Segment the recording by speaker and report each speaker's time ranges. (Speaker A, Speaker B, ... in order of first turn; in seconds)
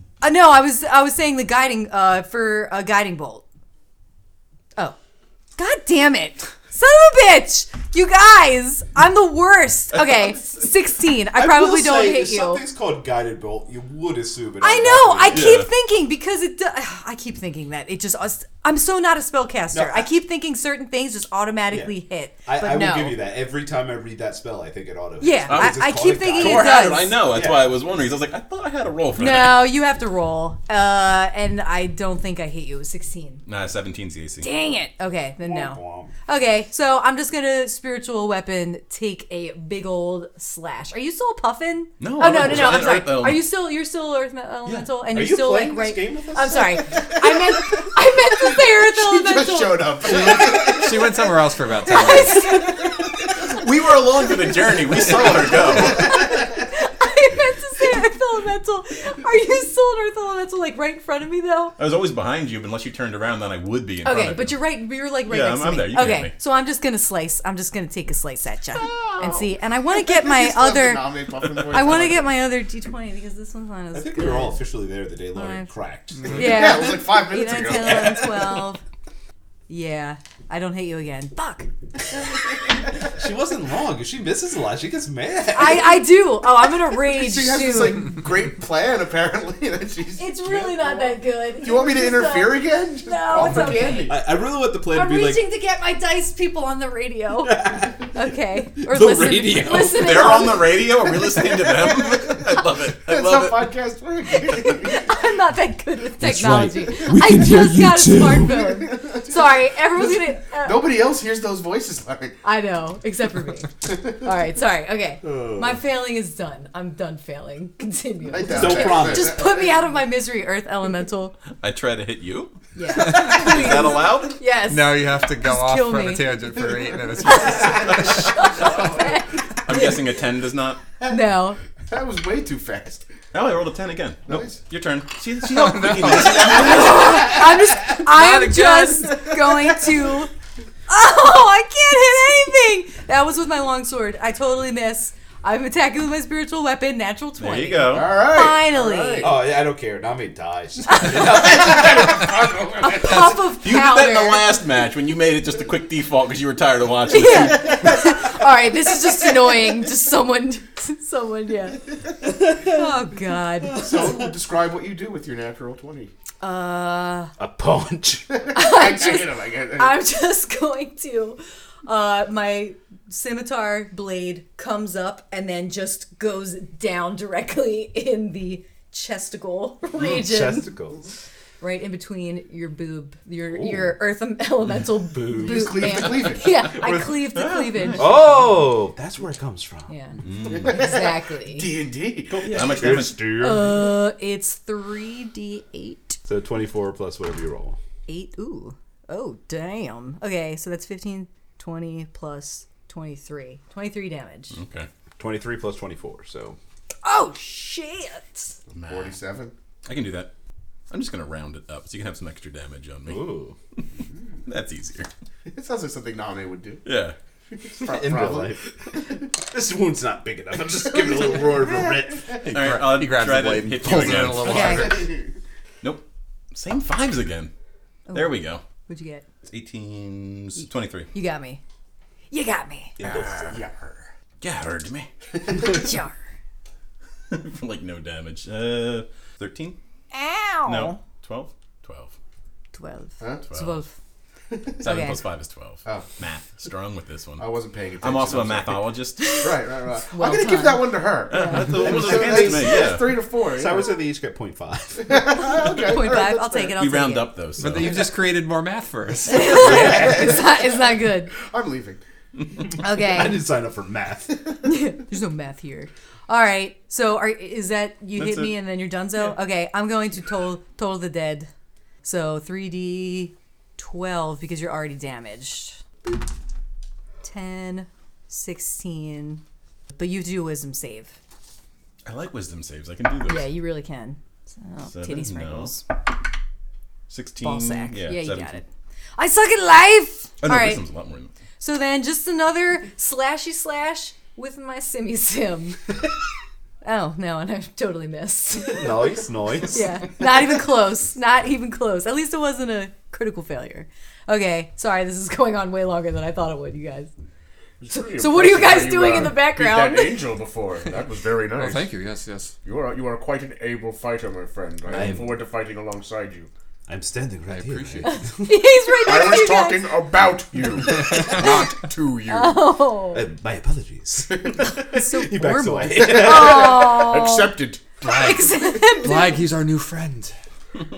Speaker A: 0.2-3.4, 5.6-12.7, 14.6-23.2, 25.2-27.2, 29.2-33.4, 34.4-50.0, 51.9-53.1, 55.5-61.8, 64.0-71.1, 71.7-74.6, 75.3-75.7, 76.3-78.8, 79.7-81.7, 85.5-88.0, 90.2-94.2, 94.9-100.9, 104.3-110.9, 112.4-121.4, 122.8-126.4, 127.2-130.0, 131.1-131.6, 136.5-140.3, 140.9-149.4, 150.9-152.1, 152.8-154.5, 157.1-163.9, 166.4-167.3, 168.5-180.7, 181.6-188.4, 189.9-191.7, 193.1-196.2, 198.1-204.6, 207.0-208.6, 224.4-225.0, 228.1-229.2, 230.6-231.6, 232.3-232.9, 235.5-236.2, 240.1-241.0, 242.7-243.9, 244.8-245.2, 249.2-249.5, 250.1-251.7, 255.3-257.3, 259.2-261.3, 262.8-263.4, 264.6-271.5, 272.0-276.2, 277.2-279.4, 279.9-281.1, 283.3-285.9, 287.4-288.6, 289.2-290.8, 291.6-295.8, 296.8-307.1, 307.9-310.2, 318.0-319.9, 322.3-323.2, 324.9-327.5, 328.0-329.4
Speaker B: 9.9-10.5, 15.3-15.7, 25.5-29.7, 33.5-34.5, 42.0-43.4, 53.2-56.2, 61.8-64.7, 65.2-66.3, 99.7-103.7, 121.6-124.4, 129.7-130.8, 133.3-137.3, 147.4-148.1, 153.2-158.1, 187.1-188.2, 190.2-190.9, 192.4-193.3, 204.5-204.9, 208.7-209.2, 209.9-210.3, 210.9-213.3, 214.5-215.1, 216.8-217.1, 222.5-225.1, 225.8-227.5, 228.1-228.6, 229.5-231.1, 233.0-233.5, 234.4-235.1, 237.3-239.8, 240.6-242.1, 243.5-243.8, 244.8-247.5, 248.0-249.3, 251.3-253.1, 256.8-258.1, 268.1-268.5, 282.1-283.5, 284.9-285.8, 287.1-288.6, 290.4-291.3
Speaker C: 11.3-15.6, 19.7-20.1, 21.7-27.7, 35.4-36.1, 45.1-47.0, 73.9-76.8, 77.7-78.5, 83.1-86.1, 93.4-95.4, 97.4-98.1, 98.8-100.3, 106.2-108.8, 115.2-115.8, 118.5-119.4, 149.2-152.2, 163.7-164.3, 167.4-168.3, 180.0-181.1, 183.5-183.9, 185.1-185.6, 186.8-187.1, 188.0-189.9, 192.3-193.9, 196.3-197.8, 205.2-206.6, 213.1-213.6, 217.8-218.6, 219.3-222.4, 233.0-233.6, 251.7-252.9, 253.5-255.3, 259.5-260.5, 262.9-264.4, 298.6-299.9, 314.9-315.4, 316.9-318.6, 323.1-326.9
Speaker D: 48.6-51.3, 55.1-56.1, 69.1-69.4, 69.9-72.3, 76.3-78.3, 87.0-94.2, 103.0-105.2, 110.6-112.4, 118.3-119.7, 128.6-128.9, 131.9-133.1, 134.3-134.6, 147.9-149.4, 151.3-153.4, 163.7-166.1, 168.3-170.0, 185.3-186.7, 190.5-192.9, 208.7-209.5, 215.5-216.8, 217.6-218.6, 221.2-221.7, 233.4-234.1, 235.6-235.8, 243.2-243.5, 244.5-244.8, 247.4-253.9, 255.0-256.8, 259.7-262.0, 307.8-311.9, 312.6-316.5, 319.0-322.6, 324.4-324.6, 325.9-328.6
Speaker E: 50.0-52.6, 124.7-128.3, 135.4-136.7, 137.9-139.3, 222.4-225.1, 257.6-259.8, 311.6-312.6, 317.5-318.2, 321.0-321.8, 328.0-328.4, 329.0-330.3